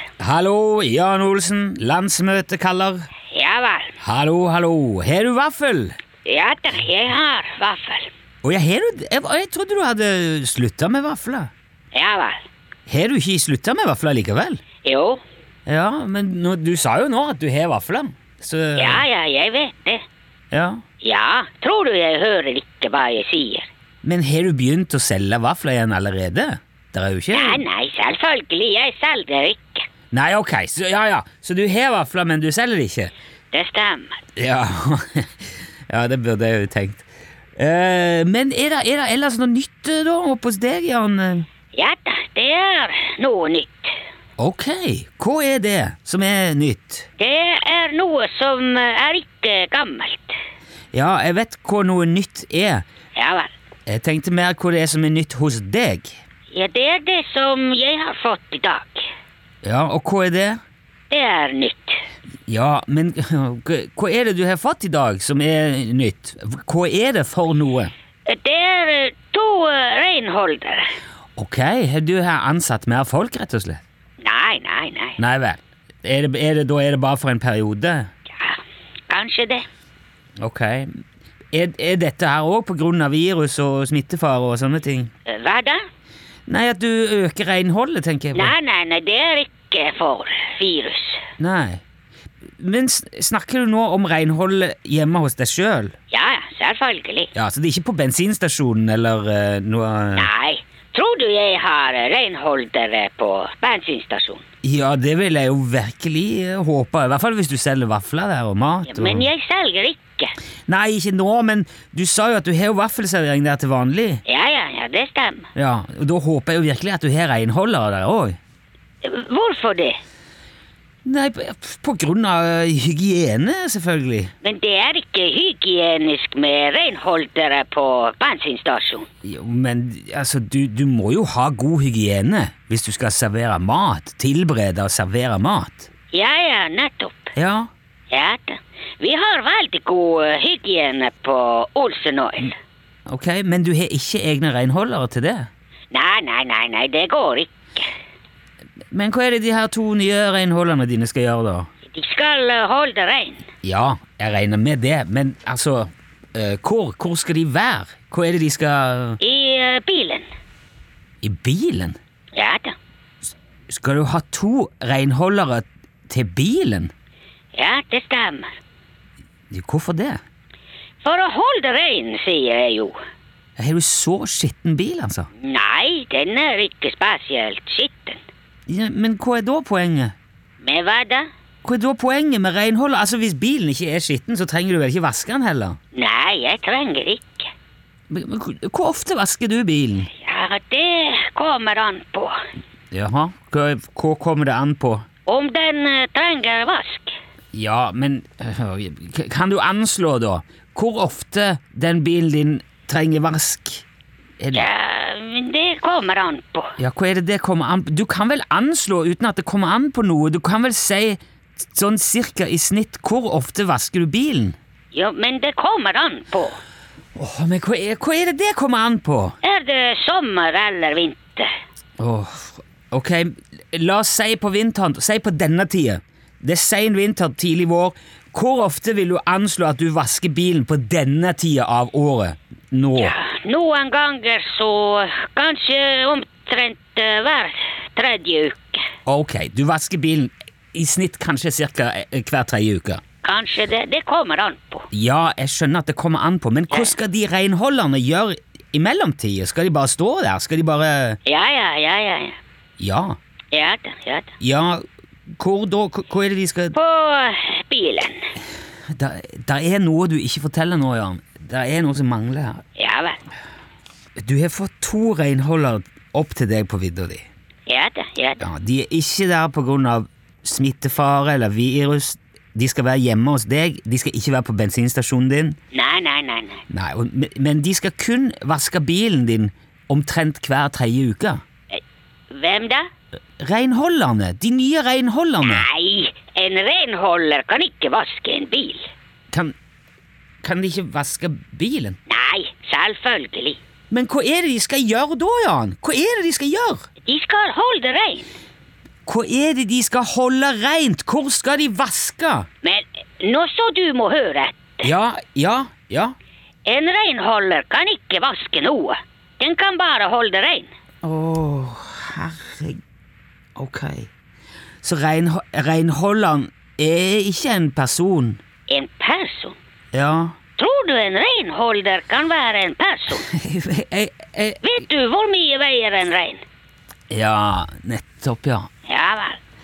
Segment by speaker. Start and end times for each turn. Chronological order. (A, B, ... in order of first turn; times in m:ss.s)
0:00.2-0:03.1 A
0:03.3-0:03.9 B
0:04.0-0:06.0 A
0:06.2-0:08.1 B
0:08.4-0:11.5 A
0:11.9-0:12.4 B
0:12.9-0:14.6 A
0:14.8-0:15.2 B
0:15.6-0:19.0 A
0:18.8-0:20.0 B
0:20.5-0:20.8 A
0:21.0-0:23.7 B
0:24.0-0:27.6 A
0:27.3-0:29.8 B
0:30.1-0:33.1 A
0:33.5-0:34.2 B
0:34.4-0:37.0 A
0:37.6-0:41.5 A
0:41.7-0:43.9 B
0:44.4-0:47.1 A
0:47.2-0:50.4 B
0:50.9-0:52.8 A
0:53.1-0:53.5 B
0:53.9-0:56.1 A
0:56.5-0:59.0 B
0:59.6-1:00.6 A
1:01.1-1:02.0 B
1:02.5-1:07.9 A
1:08.2-1:10.9 B
1:11.4-1:13.8 A
1:14.2-1:15.2 B
1:15.2-1:18.1 A
1:18.3-1:18.6 B
1:19.1-1:19.6 B
1:20.4-1:21.0 A
1:21.5-1:25.1 A
1:25.2-1:25.8 B
1:26.5-1:28.5 A
1:28.3-1:31.2 B
1:31.4-1:31.8 A
1:32.6-1:35.9 A
1:36.1-1:37.3 B
1:37.3-1:40.3 A
1:40.1-1:44.4 B
1:44.6-1:49.3 A
1:48.8-1:50.3 B
1:50.7-1:54.2 A
1:54.2-1:55.5 B
1:55.5-1:58.4 A
1:59.0-2:00.0 B
2:01.0-2:04.3 A
2:04.4-2:09.1 B
2:09.2-2:15.9 A
2:16.1-2:17.3 B
2:17.3-2:17.7 A
2:18.1-2:22.5 B
2:23.1-2:25.5 A
2:25.9-2:27.9 B
2:28.9-2:31.7 A
2:31.9-2:33.4 B
2:33.6-2:39.2 A
2:39.2-2:40.2 B
2:41.2-2:42.0 A
2:42.3-2:42.7 B
2:43.7-2:46.9 A
2:47.5-2:48.4 B
2:49.5-2:50.2 A
2:51.0-2:53.0 B
2:53.6-2:55.3 A
2:55.4-2:58.2 B
2:58.7-3:00.1 A
3:00.6-3:01.3 B
3:01.6-3:05.8 A
3:05.9-3:07.5 B
3:08.1-3:10.1 A
3:10.1-3:12.4 B
3:12.9-3:15.0 A
3:15.3-3:17.1 B
3:17.5-3:23.8 A
3:24.4-3:24.7 A
3:24.5-3:26.7 B
3:26.8-3:34.6 A
3:34.9-3:36.6 B
3:37.1-3:39.4 A
3:39.4-3:41.5 B
3:42.0-3:53.2 A
3:53.0-3:58.8 B
3:59.0-4:03.0 A
4:03.2-4:04.9 B
4:04.9-4:11.2 A
4:06.7-4:06.9 B
4:11.2-4:12.4 B
4:12.8-4:13.2 A
4:13.5-4:14.3 B
4:14.4-4:16.7 A
4:16.7-4:18.3 B
4:18.9-4:22.6 A
4:22.8-4:23.2 B
4:24.2-4:27.2 A
4:27.7-4:28.4 B
4:28.4-4:35.6 A
4:35.7-4:36.6 B
4:36.7-4:41.4 A
4:41.7-4:42.8 B
4:43.4-4:45.7 A
4:45.4-4:48.9 B
4:50.4-4:52.0 A
4:52.1-4:53.6 B
4:53.9-4:56.8 A
4:57.0-4:58.3 B
4:59.0-5:02.5 A
5:02.6-5:04.9 B
5:04.8-5:06.1 A
5:06.6-5:10.7 B
5:11.0-5:12.8 A
5:13.6-5:14.1 A
5:14.8-5:18.4 A
5:18.7-5:19.6 B
5:19.9-5:20.4 A
5:20.6-5:23.3 B
5:23.2-5:24.6 A
5:24.6-5:26.4 B
5:27.1-5:28.7 A
5:28.9-5:29.4 B